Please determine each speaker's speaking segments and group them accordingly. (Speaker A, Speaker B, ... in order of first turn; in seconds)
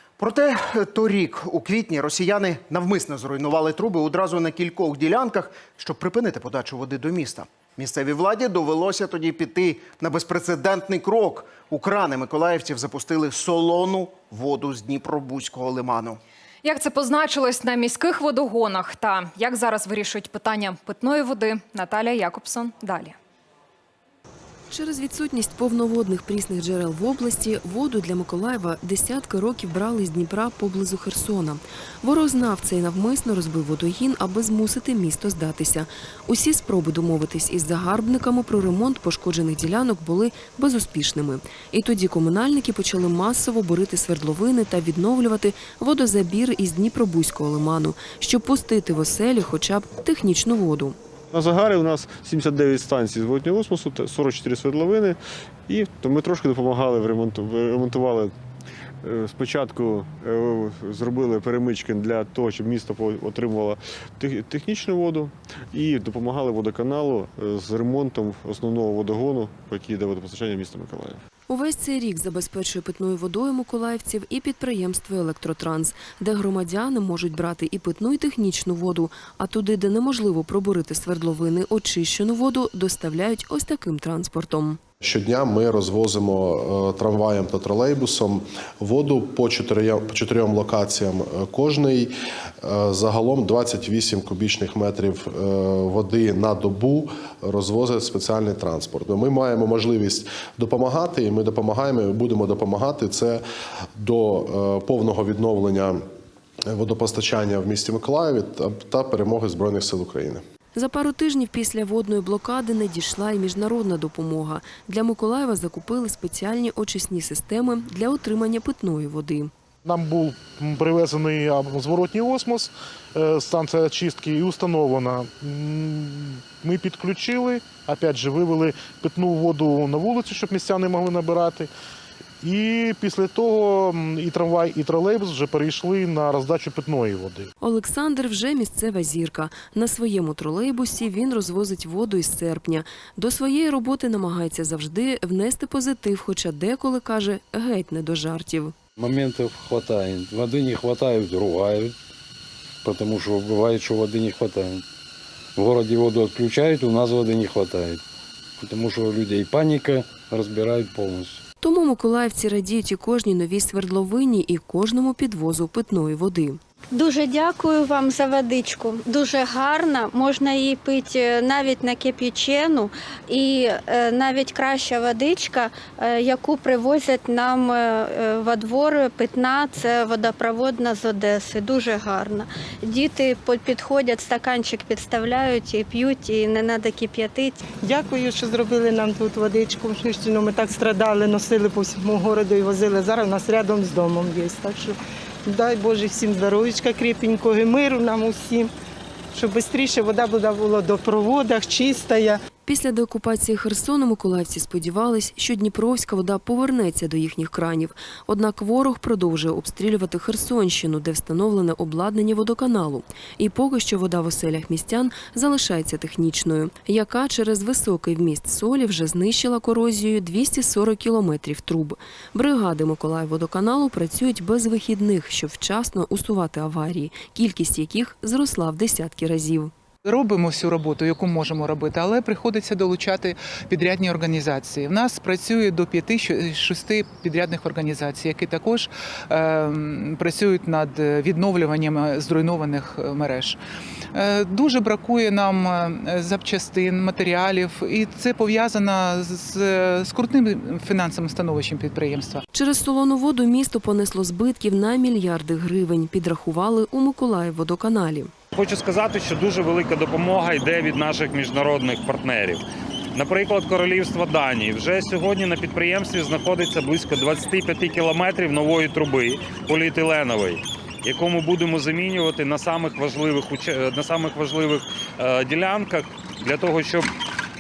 Speaker A: 0.2-16.2
Speaker B: 16.6-23.2
Speaker C: 24.7-51.0, 71.5-84.8, 110.8-119.5, 137.6-148.8, 161.6-166.6, 202.7-229.7, 252.5-258.3
Speaker D: 51.3-58.3, 59.0-71.2
Speaker E: 85.0-103.4, 104.0-106.0, 106.7-110.4
Speaker F: 119.8-131.7, 132.4-137.5
Speaker G: 149.0-152.0, 152.8-154.8, 155.6-158.0, 158.6-161.4
Speaker H: 166.9-187.6
Speaker I: 187.8-198.7, 199.3-202.4
Speaker J: 230.1-243.6, 244.1-252.4
Speaker K: 258.5-262.6, 263.1-277.1